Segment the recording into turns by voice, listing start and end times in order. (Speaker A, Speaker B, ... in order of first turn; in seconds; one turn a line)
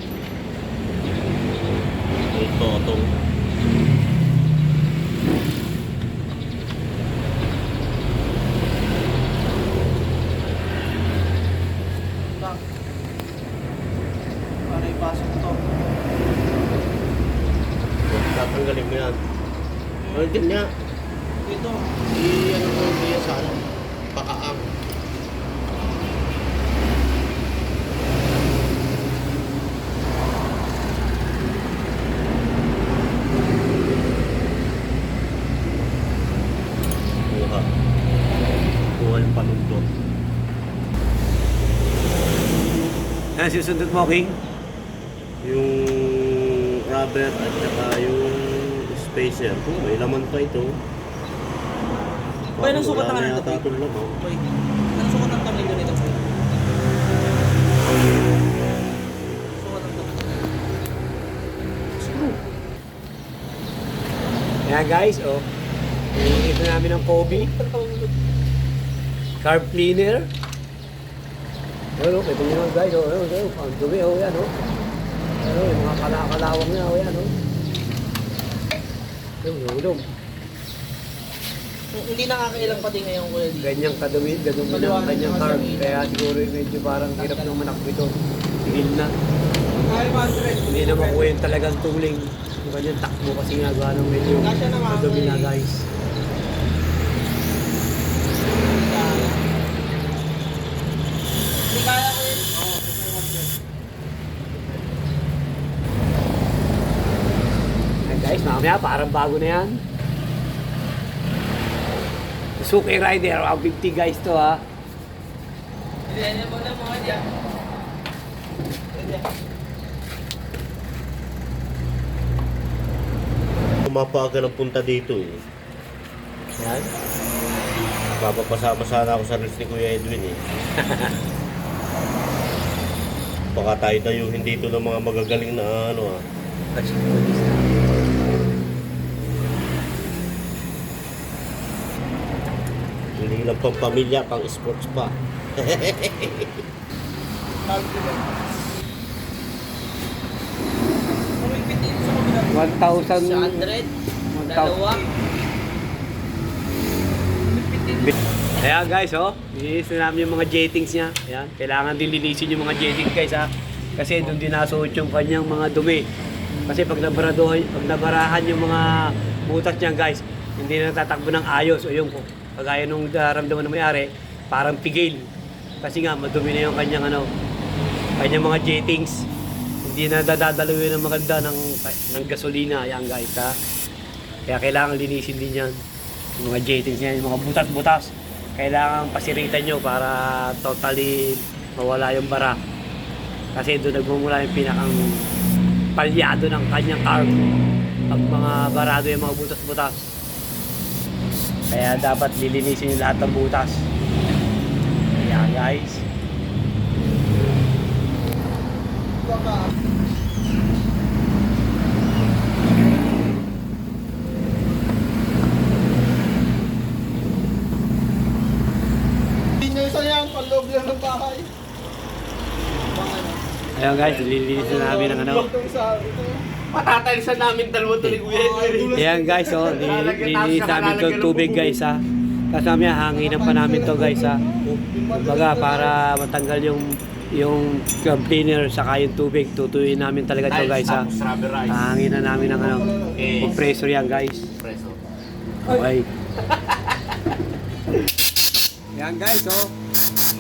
Speaker A: 2.3-3.1
Speaker B: 12.3-12.6
Speaker B: 14.7-15.6
Speaker A: 18.1-19.2
Speaker B: 20.0-20.4
Speaker A: 20.1-20.7
Speaker B: 21.4-21.9
Speaker A: 22.1-24.7
Speaker A: 37.3-37.7
Speaker A: 39.0-39.9
Speaker C: 43.4-44.4
Speaker A: 45.4-50.8
Speaker A: 52.6-54.2
Speaker B: 52.6-54.4
Speaker B: 55.0-56.2
Speaker B: 59.5-60.5
Speaker A: 62.1-62.4
Speaker C: 64.7-65.5
Speaker C: 66.1-67.5
Speaker B: 67.3-68.1
Speaker C: 69.4-70.3
Speaker C: 72.0-74.5
Speaker C: 75.4-77.3
Speaker C: 79.4-80.1
Speaker B: 81.9-83.8
Speaker C: 83.6-89.1
Speaker B: 84.7-86.1
Speaker B: 87.2-87.6
Speaker B: 89.7-91.3
Speaker C: 90.7-95.8
Speaker B: 94.4-95.5
Speaker B: 98.7-99.5
Speaker B: 101.7-102.7
Speaker C: 108.0-109.8
Speaker C: 112.6-114.6
Speaker B: 116.1-117.3
Speaker B: 119.0-119.2
Speaker A: 123.9-125.4
Speaker C: 126.6-126.9
Speaker A: 128.2-130.4
Speaker C: 130.8-131.2
Speaker A: 133.6-136.2
Speaker C: 136.7-137.8
Speaker A: 143.2-146.6
Speaker B: 147.7-148.3
Speaker B: 151.3-153.9
Speaker C: 152.5-153.7
Speaker C: 154.3-154.9
Speaker B: 154.5-155.1
Speaker B: 157.4-158.1
Speaker C: 158.0-166.1
Speaker C: 166.7-175.3
Speaker C: 175.8-177.3
Speaker C: 178.2-179.3
Speaker C: 179.8-183.5
Speaker C: 184.5-185.8
Speaker C: 186.4-192.6
Speaker C: 193.5-195.2
Speaker C: 196.0-197.5
Speaker C: 198.1-200.0
Speaker C: 201.7-203.8
Speaker C: 205.2-206.1
Speaker B: 209.3-209.7
Speaker B: 219.6-221.5
Speaker B: 222.9-223.4
Speaker C: 223.8-225.5
Speaker A: 223.8-225.5
Speaker B: 224.7-226.4
Speaker A: 226.7-231.8
Speaker B: 228.2-229.3
Speaker C: 228.9-234.4
Speaker B: 233.2-235.9
Speaker C: 235.1-241.1
Speaker A: 240.5-241.9
Speaker C: 241.7-244.5
Speaker A: 243.0-245.0
Speaker C: 245.7-246.1
Speaker C: 248.9-249.7